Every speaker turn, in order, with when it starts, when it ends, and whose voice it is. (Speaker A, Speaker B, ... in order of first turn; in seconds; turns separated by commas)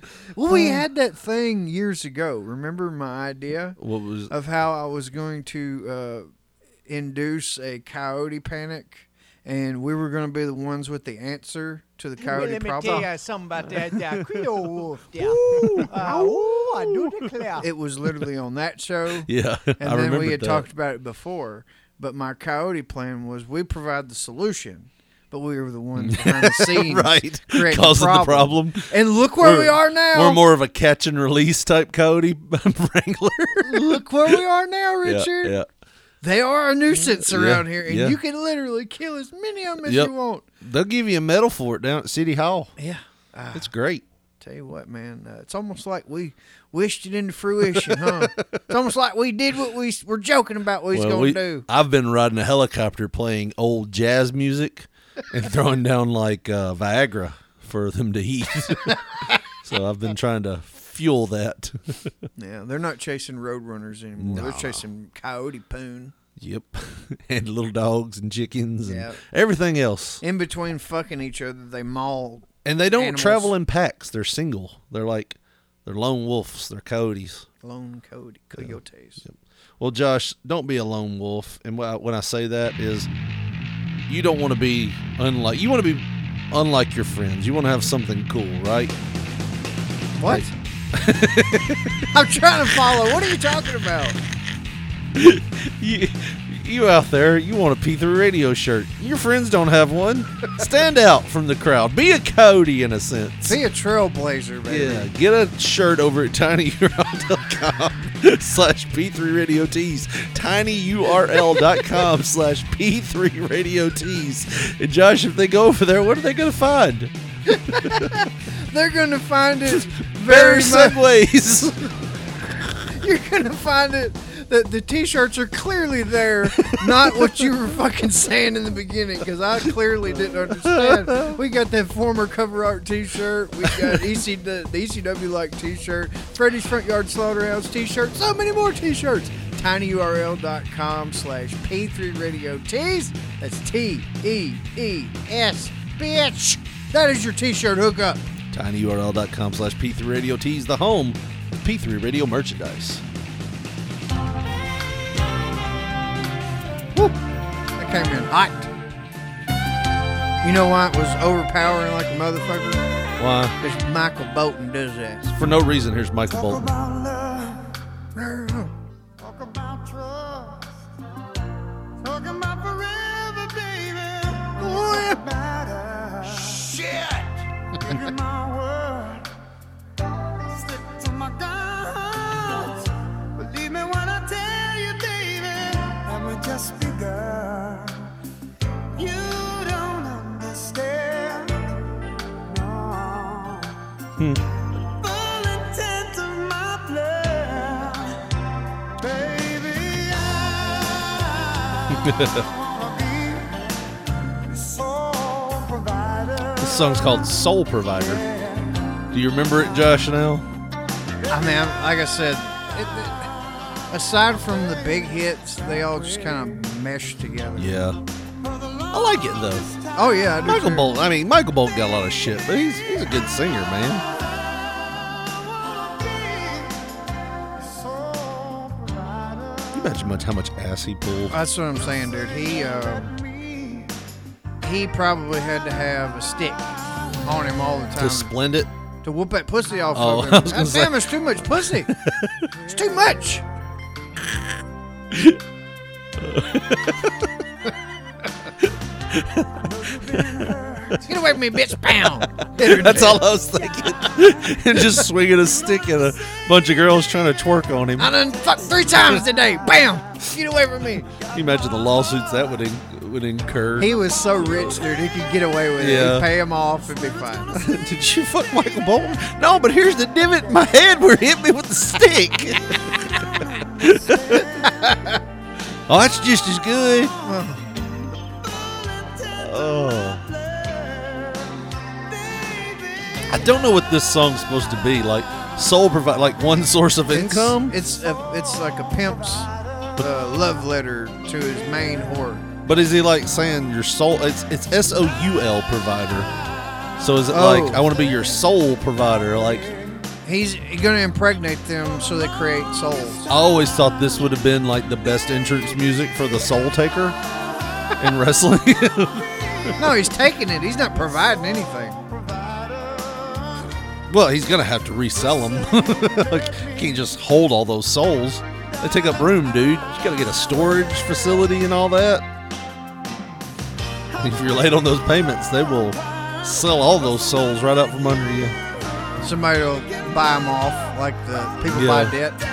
Speaker A: 0.4-3.8, Speaker B: 0.5-0.8, Speaker B: 3.8-4.3, Speaker A: 4.3-6.3, Speaker A: 6.9-13.1, Speaker C: 12.2-17.7, Speaker B: 14.1-17.3, Speaker A: 15.6-16.5, Speaker A: 17.6-30.4, Speaker B: 19.3-20.7, Speaker B: 26.0-28.9, Speaker B: 29.4-34.4, Speaker A: 33.6-35.6, Speaker B: 35.0-35.7, Speaker A: 36.2-40.5, Speaker B: 36.9-38.2, Speaker B: 39.8-42.7, Speaker A: 42.8-43.7, Speaker B: 43.5-44.0, Speaker A: 44.4-51.7, Speaker B: 47.7-48.6, Speaker B: 50.9-59.0, Speaker B: 59.6-62.1, Speaker A: 62.4-66.1, Speaker B: 64.2-64.8, Speaker B: 66.4-70.2, Speaker A: 68.9-69.2, Speaker A: 70.2-73.5, Speaker B: 72.7-77.5, Speaker A: 77.6-79.2, Speaker B: 79.2-83.1, Speaker B: 84.1-88.9, Speaker A: 90.2-90.5, Speaker B: 90.3-92.1, Speaker A: 92.1-94.2, Speaker B: 95.2-103.6, Speaker A: 103.4-105.1, Speaker B: 104.7-117.1, Speaker A: 117.5-121.0, Speaker B: 117.8-118.1, Speaker B: 120.2-122.0, Speaker A: 122.9-148.3, Speaker B: 126.6-127.4, Speaker B: 130.6-131.4, Speaker B: 133.6-134.0, Speaker B: 148.5-153.0, Speaker A: 157.8-158.7, Speaker A: 160.4-162.9, Speaker B: 163.2-163.6, Speaker A: 163.6-165.3, Speaker B: 165.3-166.7, Speaker D: 166.3-167.7, Speaker A: 168.2-168.7, Speaker D: 169.2-170.7, Speaker D: 172.0-179.3, Speaker A: 174.6-175.1, Speaker D: 180.4-188.1, Speaker D: 188.9-191.9, Speaker D: 192.4-193.7, Speaker D: 194.8-198.2, Speaker D: 199.0-203.6, Speaker B: 201.9-202.5, Speaker D: 204.5-206.7, Speaker B: 206.6-208.2, Speaker B: 209.1-210.5, Speaker A: 211.3-213.3, Speaker A: 213.9-217.8, Speaker B: 217.6-218.0, Speaker B: 218.9-219.7, Speaker A: 219.9-220.9, Speaker B: 220.4-224.0, Speaker D: 225.7-226.9, Speaker D: 227.7-229.7, Speaker B: 229.7-231.4, Speaker A: 231.3-233.2, Speaker D: 233.4-233.9, Speaker A: 234.6-238.3, Speaker B: 238.0-238.7, Speaker A: 239.0-241.9, Speaker B: 239.9-242.5, Speaker A: 242.6-243.4, Speaker B: 245.1-245.4, Speaker B: 246.2-247.3, Speaker B: 248.6-250.5, Speaker D: 249.9-251.0, Speaker A: 251.0-253.3, Speaker B: 252.0-258.1, Speaker A: 258.0-261.1, Speaker B: 261.1-263.9, Speaker A: 263.8-267.6, Speaker B: 265.8-266.3, Speaker B: 267.5-273.2, Speaker B: 273.8-274.9, Speaker D: 273.8-274.8, Speaker B: 275.9-277.1, Speaker A: 277.2-277.8, Speaker D: 278.4-283.3, Speaker B: 279.4-280.3, Speaker B: 283.3-287.8, Speaker A: 287.1-292.5, Speaker B: 292.6-296.3, Speaker B: 297.0-299.8, Speaker A: 297.3-297.9, Speaker A: 300.2-303.2, Speaker B: 303.3-307.2, Speaker B: 308.0-309.7, Speaker A: 309.8-312.0, Speaker B: 314.1-322.3, Speaker B: 324.1-328.6, Speaker A: 329.2-332.4, Speaker B: 331.7-332.2